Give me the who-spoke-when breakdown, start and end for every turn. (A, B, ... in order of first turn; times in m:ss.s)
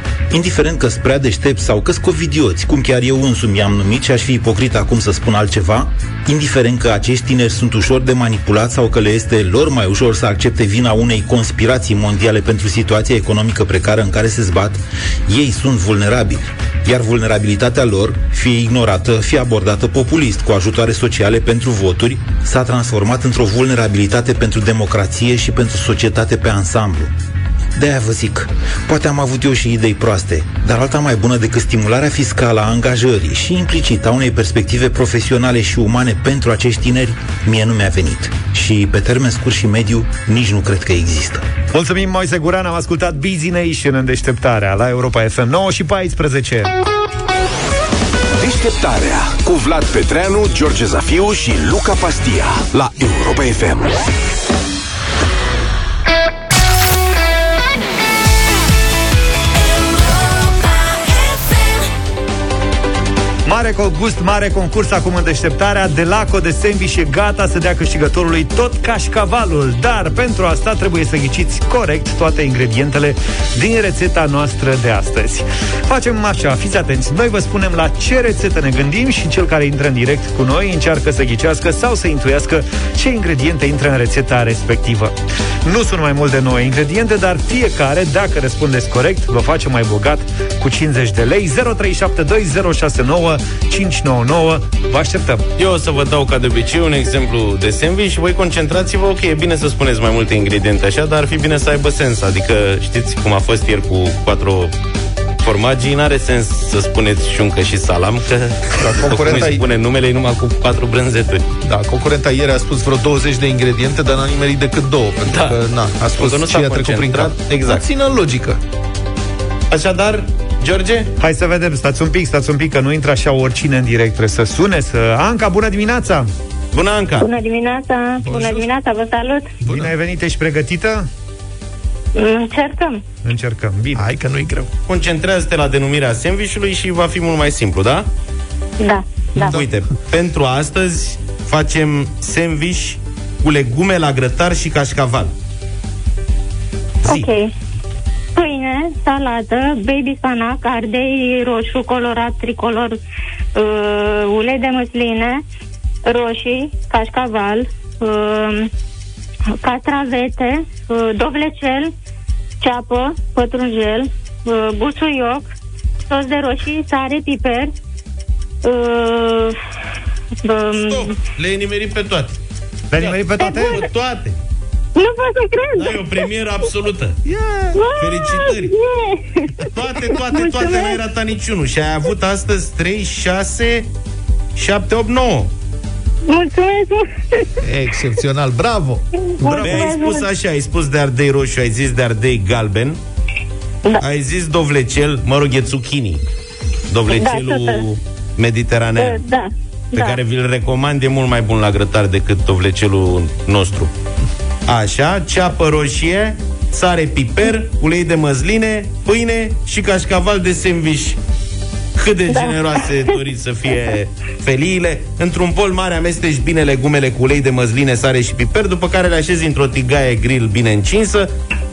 0:00.3-0:27.1 A
0:27.8-0:41.4 A
0:41.7-0:46.7 B
0:48.4-0:54.0 C
1:03.5-1:35.5 B
1:35.6-1:44.7 D
1:45.4-1:51.4 D
1:48.8-1:49.6 E
1:51.6-1:58.6 E
1:55.3-1:55.6 D
1:56.1-1:57.8 D
1:59.7-2:01.1 D
2:01.2-2:06.3 B
2:06.7-2:07.3 D
2:07.2-2:09.5 F
2:08.2-2:08.6 E
2:09.6-2:09.9 E
2:09.6-2:11.1 B
2:12.2-2:13.0 F
2:13.2-2:14.1 B
2:14.0-2:14.7 E
2:14.9-2:18.1 D
2:18.8-2:19.6 F
2:19.4-2:25.3 D
2:27.1-2:27.5 F
2:28.4-2:33.0 F
2:33.6-2:35.4 F
2:36.1-2:38.7 F
2:39.5-2:41.9 F
2:42.6-2:45.5 F
2:46.1-2:47.7 F
2:48.6-2:49.6 F
2:50.4-2:51.2 F
2:50.8-2:52.4 D
2:52.9-2:53.9 B
2:53.0-2:54.4 D
2:53.4-2:53.8 F
2:55.0-2:56.3 F
2:55.8-2:57.2 D
2:57.3-2:57.8 E
2:57.7-3:01.0 F
2:58.0-2:58.7 D
2:59.7-3:03.9 D
3:04.6-3:05.5 D
3:06.3-3:07.5 F
3:07.6-3:09.0 E
3:09.2-3:10.3 F
3:09.4-3:10.0 B
3:09.6-3:13.0 D
3:14.0-3:16.2 D
3:16.9-3:19.2 D
3:17.1-3:17.9 F
3:19.0-3:20.2 F
3:19.9-3:23.9 D
3:24.7-3:31.2 D
3:32.0-3:41.3 D
3:32.3-3:33.2 F